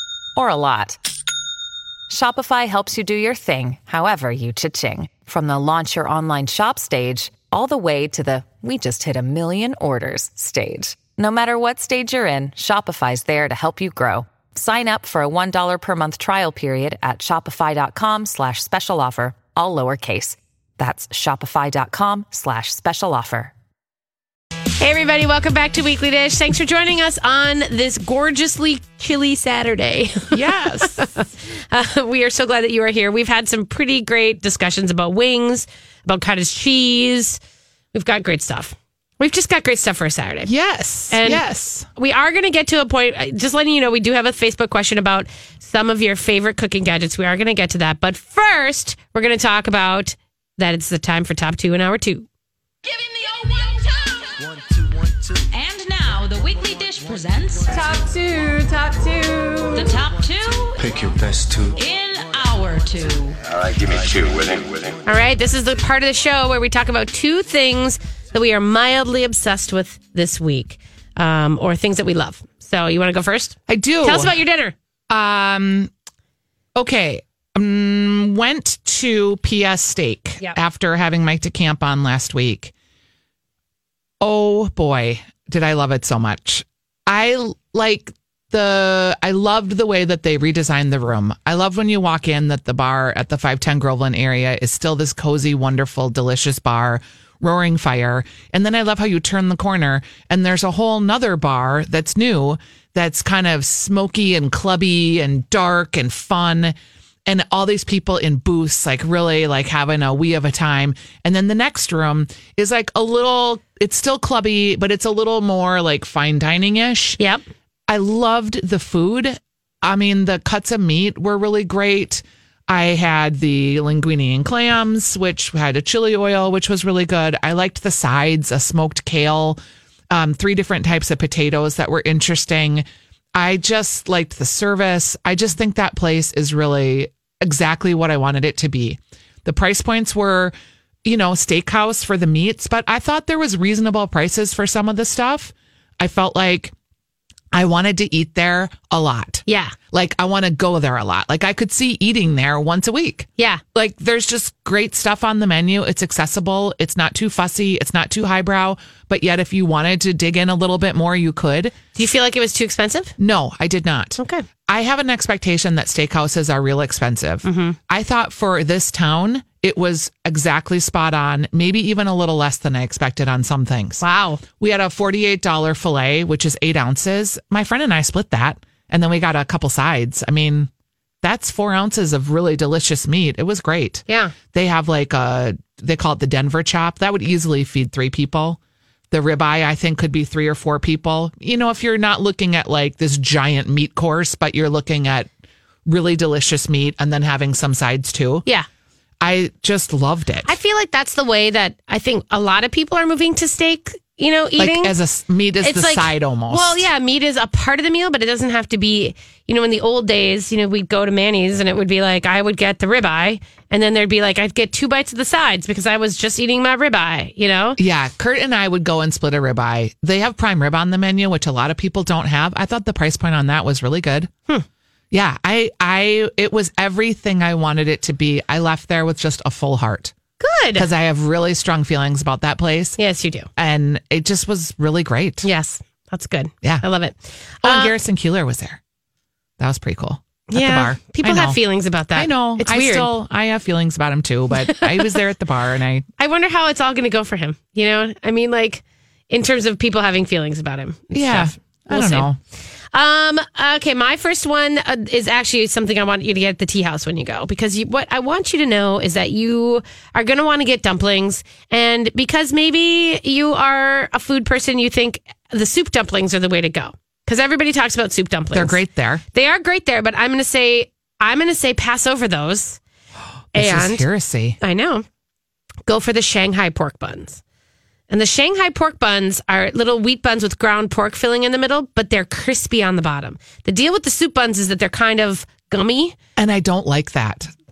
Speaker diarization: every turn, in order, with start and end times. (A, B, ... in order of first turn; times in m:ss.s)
0:00.4-0:01.0 A
0:02.1-0:23.5 A
0:24.8-0:37.4 B
0:30.3-0:31.2 C
0:37.9-0:40.5 B
0:40.4-0:41.8 C
0:41.1-0:52.3 B
0:52.8-0:54.6 D
0:55.5-1:00.8 D
1:00.8-1:01.8 E
1:01.8-1:03.4 D
1:03.4-1:05.0 E
1:05.0-1:14.7 B
1:13.7-1:14.3 C
1:15.1-1:15.9 C
1:16.8-1:22.7 C
1:24.2-1:46.7 C
1:47.2-1:57.2 C
1:57.9-2:09.6 C
2:10.1-2:20.5 C
2:21.0-2:26.7 C
2:27.5-2:41.8 C
2:29.5-2:29.8 B
2:42.0-2:43.1 B
2:43.2-2:54.0 C
2:44.2-2:44.4 B
2:47.4-2:47.8 B
2:54.0-2:54.4 B
2:54.6-3:00.7 C
3:01.2-3:08.6 C
3:04.1-3:04.3 B
3:09.1-3:15.3 C
3:15.8-3:18.4 C
3:19.2-3:20.6 C
3:20.4-3:24.9 B
3:24.6-3:26.8 C
3:25.6-3:37.8 B
3:37.8-3:44.3 C
3:45.1-3:50.1 C
3:50.4-3:50.9 B
3:50.7-3:53.0 C
3:53.0-3:53.5 B
3:53.6-3:55.5 C
3:55.4-3:57.9 B
3:57.6-3:58.8 C
3:59.6-4:01.6 C
4:00.5-4:03.1 B
4:02.1-4:06.0 C
4:06.2-4:12.3 B
4:11.1-4:12.4 C
4:12.9-4:28.8 B
4:28.5-4:29.2 C
4:29.3-4:32.8 B
4:33.5-4:34.0 B
4:33.5-4:34.6 C
4:34.6-4:35.0 B
4:35.8-4:37.4 B
4:38.1-4:46.1 B
4:46.4-4:47.5 C